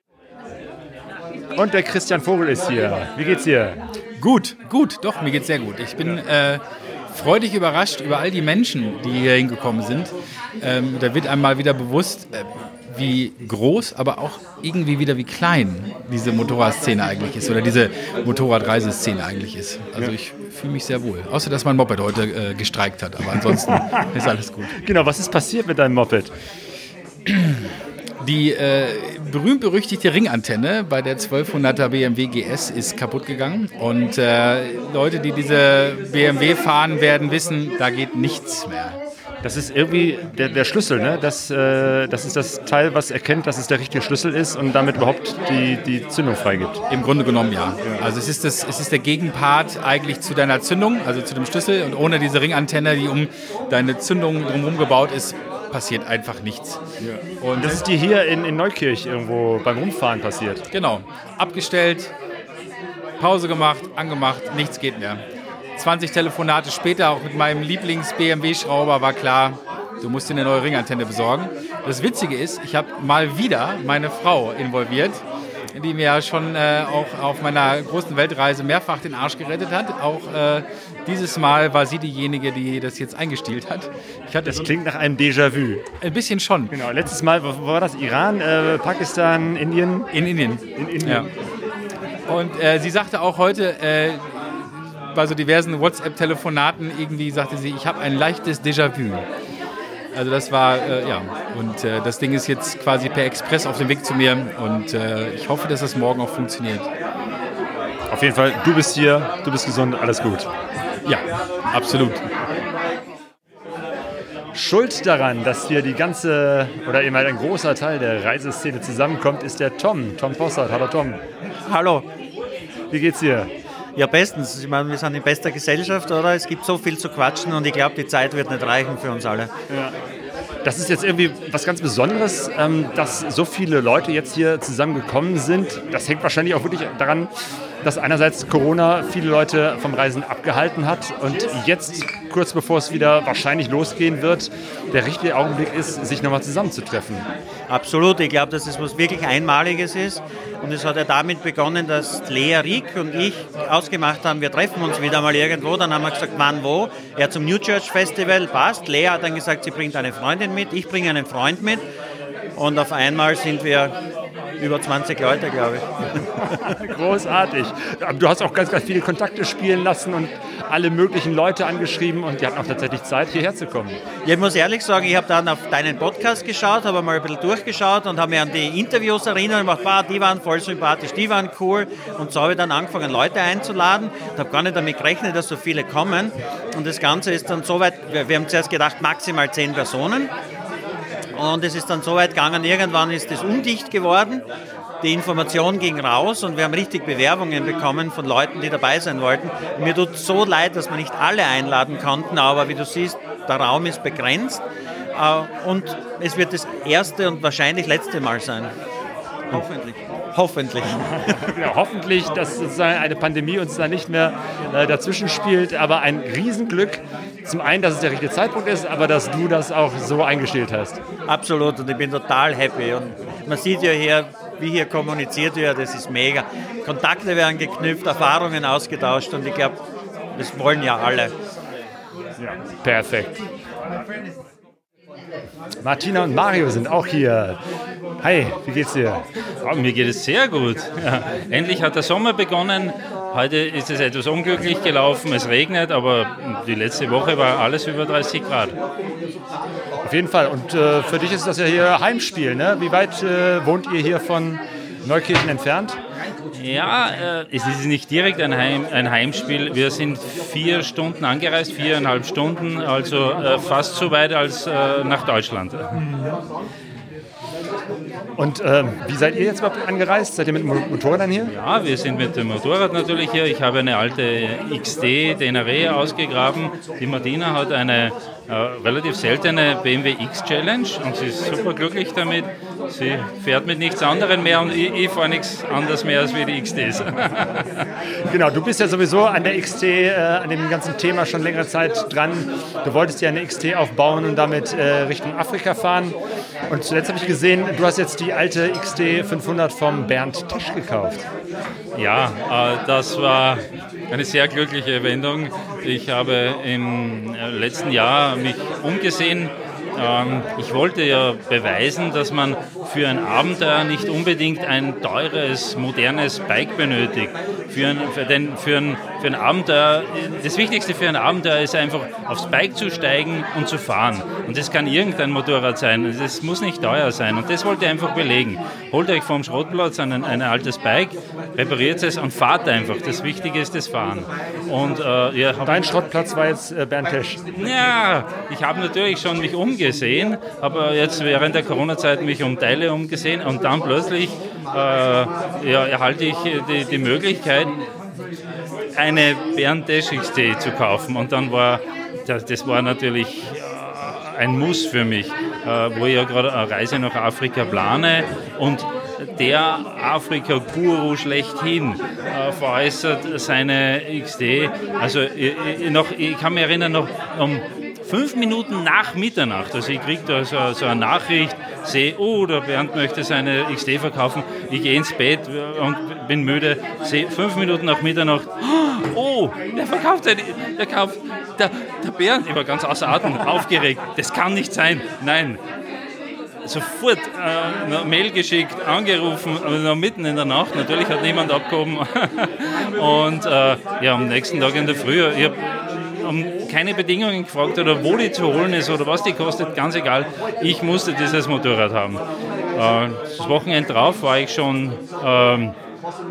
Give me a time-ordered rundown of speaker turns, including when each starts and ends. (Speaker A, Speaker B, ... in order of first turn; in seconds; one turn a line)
Speaker A: 1.6-3.8
Speaker B: 4.2-24.8
Speaker A: 23.7-24.0
Speaker A: 24.8-26.3
Speaker B: 28.2-39.0
Speaker A: 39.4-46.8
Speaker B: 46.9-56.8
Speaker B: 57.4-57.8
Speaker A: 57.5-60.6
Speaker B: 60.7-62.1
Speaker B: 63.2-65.2
Speaker B: 65.8-84.7
Speaker A: 84.4-85.8
Speaker B: 86.0-86.7
Speaker A: 86.7-90.1
Speaker B: 90.1-91.3
Speaker A: 90.8-91.3
Speaker B: 92.3-99.2
Speaker B: 100.1-106.9
Speaker A: 108.1-110.5
Speaker B: 111.0-112.2
Speaker A: 114.5-121.2
Speaker C: 121.7-122.0
Speaker A: 122.9-123.5
Speaker C: 124.0-129.5
Speaker A: 130.6-137.3
Speaker A: 137.8-147.3
Speaker C: 147.7-161.8
Speaker C: 162.6-163.9
Speaker C: 164.6-165.8
Speaker A: 166.7-174.0
Speaker C: 174.2-190.3
Speaker C: 191.4-194.4
Speaker C: 195.0-204.6
Speaker C: 205.2-208.7
Speaker C: 209.5-211.4
Speaker A: 211.5-221.0
Speaker C: 221.3-229.8
Speaker C: 230.4-231.3
Speaker A: 232.4-233.4
Speaker A: 235.8-237.6
Speaker A: 238.2-239.2
Speaker D: 239.6-248.8
Speaker A: 250.0-256.0
Speaker D: 256.5-266.0
Speaker A: 268.4-271.5
Speaker D: 271.5-287.7
Speaker A: 288.3-296.1
Speaker A: 296.7-301.2
Speaker D: 301.9-335.9
Speaker A: 335.6-337.4
Speaker D: 337.6-347.7
Speaker D: 348.9-385.6
Speaker D: 386.6-395.6
Speaker D: 396.2-402.2
Speaker D: 402.7-405.8